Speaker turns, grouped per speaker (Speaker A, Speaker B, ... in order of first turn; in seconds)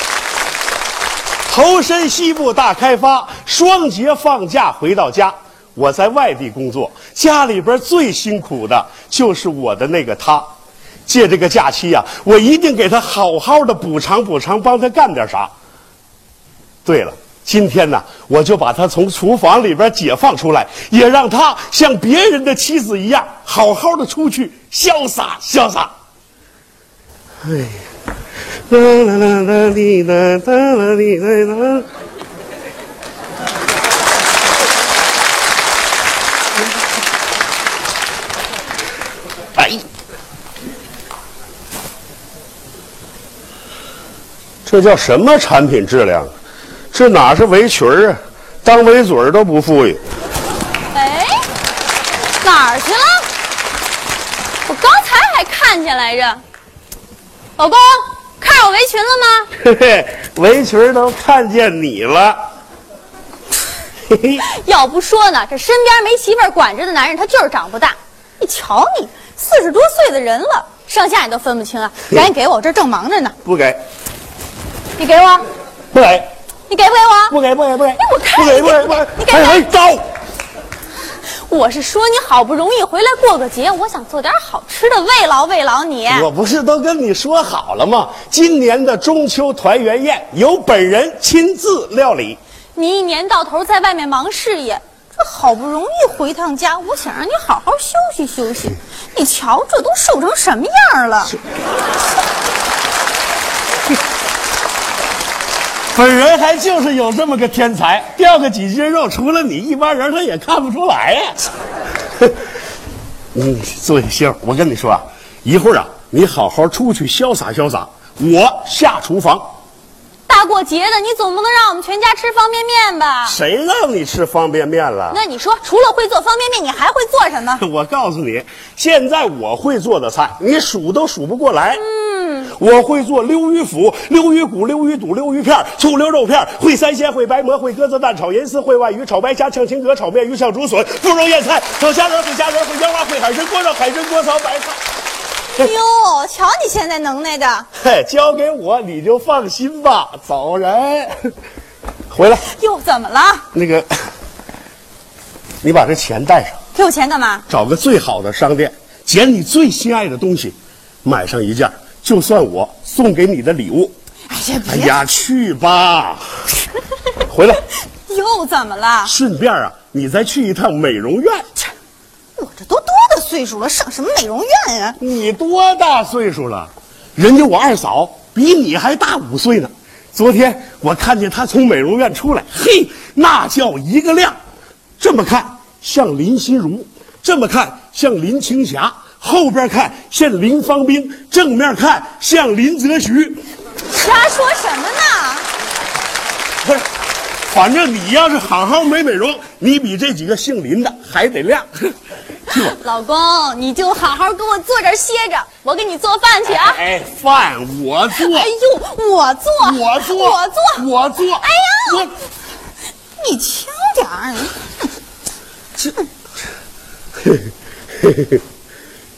Speaker A: 1.5-10.5, 11.1-15.5, 16.9-25.9, 27.4-27.8, 28.7-31.9, 39.6-39.9, 44.7-46.3, 46.9-50.0, 59.6-62.4, 64.1-64.4, 73.4-73.8, 75.9-76.3, 77.3-80.1, 86.1-92.4, 105.9-111.4, 113.3-119.5, 123.2-125.2, 127.6-131.8, 132.5-144.8, 147.8-151.3, 152.1-152.5, 153.5-153.9, 155.6-156.6, 157.5-163.9, 164.7-166.3, 167.3-167.6, 169.1-171.5, 175.0-184.4, 185.0-193.4, 196.6-196.9, 197.5-201.9, 202.5-202.8, 206.5-208.5, 209.6-212.1
Speaker B: 50.9-51.5, 52.4-53.3, 54.7-56.4, 57.6-59.5, 64.4-73.3, 75.0-75.5, 76.7-77.3, 78.0-79.7, 81.4-86.3, 92.8-101.3, 120.3-123.4, 125.1-127.6, 131.8-132.5, 145.6-147.7, 152.4-153.4, 156.7-157.4, 164.3-165.0, 168.1-169.1, 172.4-175.0, 193.9-195.5, 202.5-206.8, 208.1-210.9, 211.4-212.1, 213.2-214.7